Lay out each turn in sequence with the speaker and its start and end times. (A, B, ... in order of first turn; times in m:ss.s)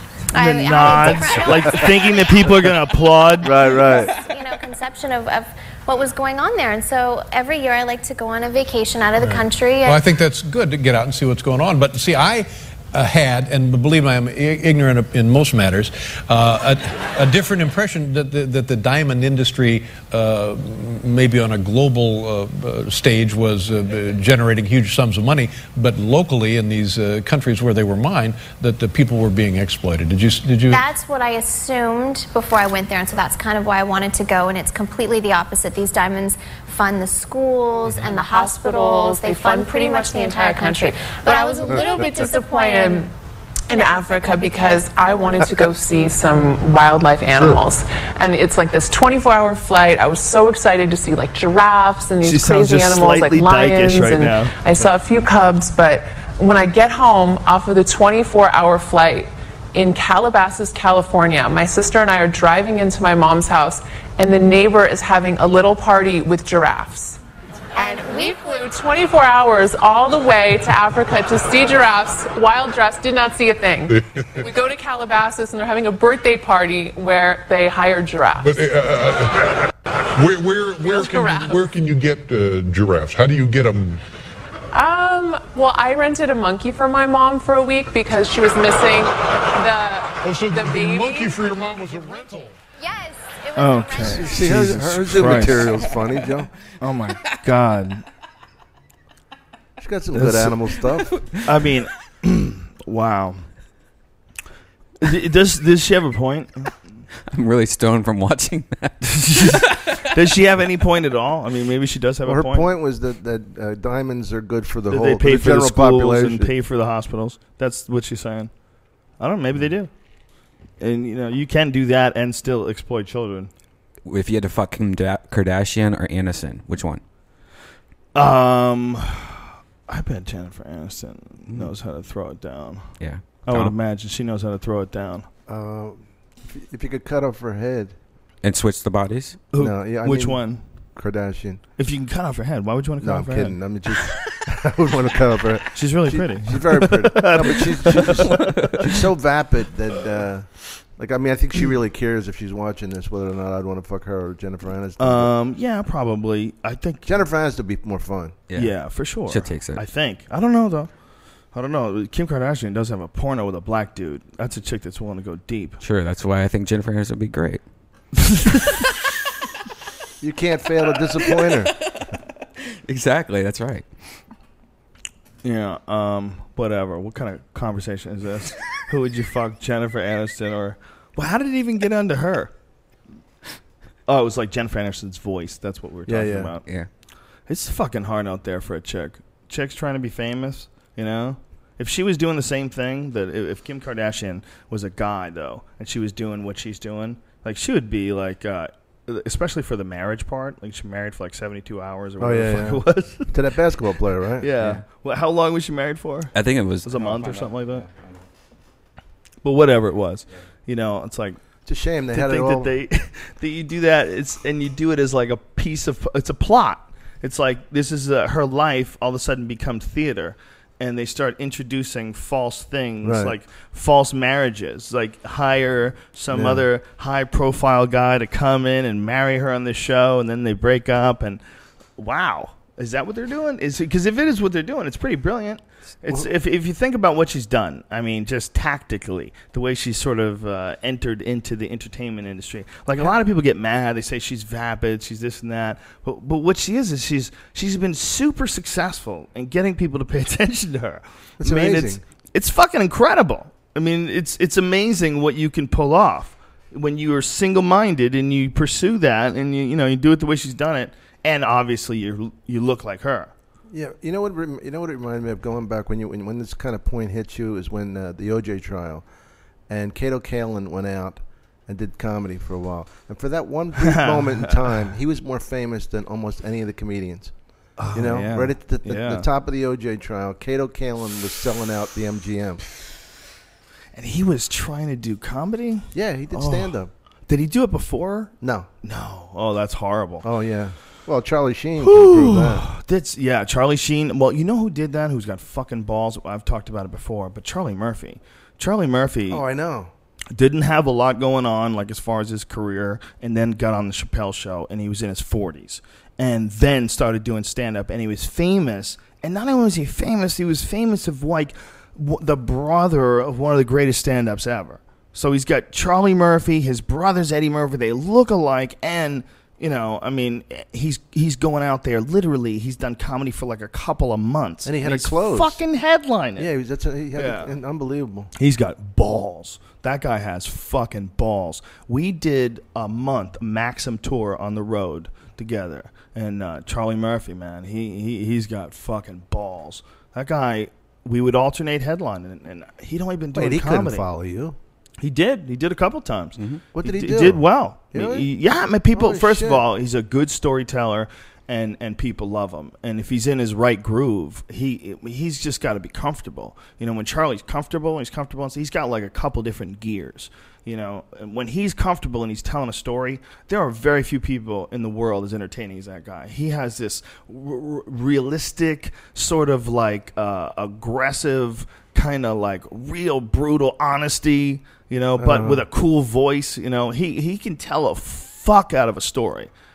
0:00.3-0:10.0 A
0:00.3-0:03.8 B
0:00.8-0:01.8 C
0:03.4-0:04.2 C
0:09.2-0:30.8 D
0:30.7-0:43.1 A
0:37.8-0:43.1 E
0:43.7-1:07.2 E
0:43.7-0:45.5 A
0:52.2-0:54.6 B
1:07.8-1:18.5 E
1:07.8-1:08.6 A
1:13.9-1:14.5 F
1:18.4-1:24.0 F
1:20.8-1:21.7 E
1:24.7-1:31.4 E
1:30.1-1:32.6 F
1:32.8-1:34.6 A
1:33.5-1:35.8 B
1:34.0-1:36.5 C
1:36.8-1:38.0 B
1:39.8-1:41.2 C
1:40.1-1:40.6 B
1:41.4-1:43.5 B
1:45.0-1:46.7 B
1:47.3-1:50.0 G
1:49.0-1:52.7 B
1:52.2-1:56.5 C
1:54.9-1:58.5 B
1:59.2-1:59.9 B
2:00.8-2:03.5 B
2:04.1-2:07.0 G
2:08.1-2:15.3 B
2:13.0-2:13.7 G
2:15.5-2:17.9 C
2:18.4-2:19.4 G
2:19.5-2:20.6 B
2:19.6-2:21.6 C
2:21.8-2:23.6 B
2:23.0-2:35.3 C
2:25.7-2:28.9 B
2:35.0-2:37.2 B
2:37.1-2:38.4 C
2:38.5-2:39.8 G
2:38.5-2:40.9 B
2:41.5-2:45.8 B
2:45.8-2:47.6 G
2:50.2-2:51.7 C
2:52.8-2:53.9 G
2:55.4-3:02.5 B
3:04.1-3:06.7 B
3:06.1-3:06.5 C
3:07.5-3:23.3 B
3:22.2-3:24.7 C
3:24.4-3:27.8 B
3:26.3-3:28.1 G
3:29.4-3:31.4 B
3:31.7-3:32.7 C
3:32.1-3:51.4 B
3:43.0-3:43.3 C
3:46.3-3:46.7 C
3:52.0-4:23.3 B
4:11.4-4:12.0 C
4:23.7-4:29.1 C
4:29.7-4:37.3 C
4:33.8-4:34.9 B
4:37.8-4:39.2 B
4:37.9-4:42.6 C
4:43.9-4:46.7 B
4:45.9-4:46.9 C
4:47.3-4:50.2 B
4:48.4-4:48.7 C
4:50.2-4:52.7 C
4:51.8-4:59.4 B
4:59.3-4:59.9 C
5:00.3-5:26.5 B
5:24.6-5:25.6 C
5:26.4-5:28.3 C
5:27.2-5:27.5 B
5:28.4-5:44.1 B
5:43.3-5:44.6 C
5:45.0-6:19.5 B
5:46.7-5:48.3 C
5:48.9-5:49.6 C
6:15.2-6:15.6 C